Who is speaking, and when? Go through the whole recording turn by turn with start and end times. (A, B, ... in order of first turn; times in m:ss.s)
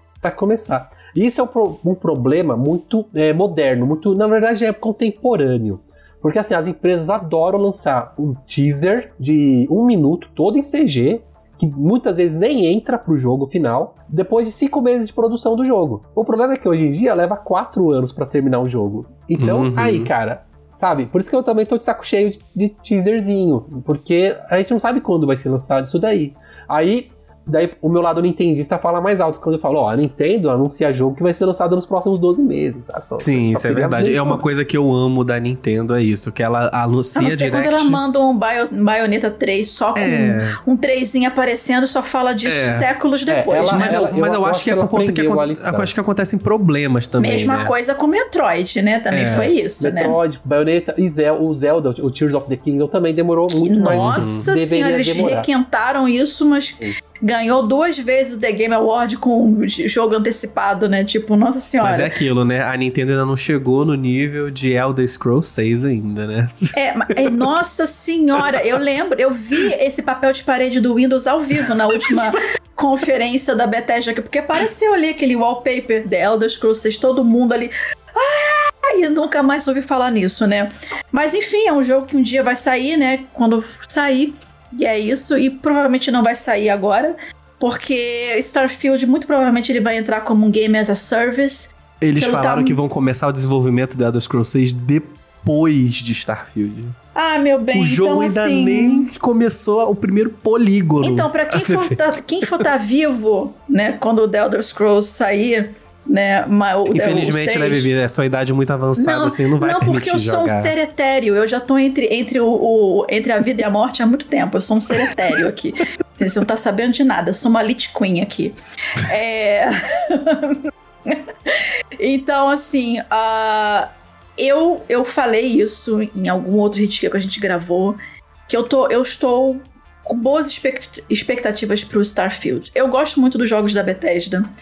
0:00.2-0:34.4 A
0:19.4-0:20.1 B
0:33.2-0:38.0 B
0:37.2-0:44.1 C
0:40.0-0:40.6 B
0:42.5-0:42.9 B
0:43.3-0:45.9 A
0:43.7-0:47.7 B
0:47.2-0:50.2 C
0:49.1-0:49.5 B
0:49.8-0:55.5 A
0:53.6-1:02.1 C
0:53.9-0:54.5 B
1:01.8-1:06.7 B
1:06.7-1:32.8 C
1:11.6-1:12.3 B
1:32.0-1:37.0 B
1:37.2-1:39.1 C
1:37.7-1:42.5 B
1:41.0-1:47.9 C
1:46.9-1:50.7 B
1:49.0-2:08.0 C
2:08.5-2:14.4 C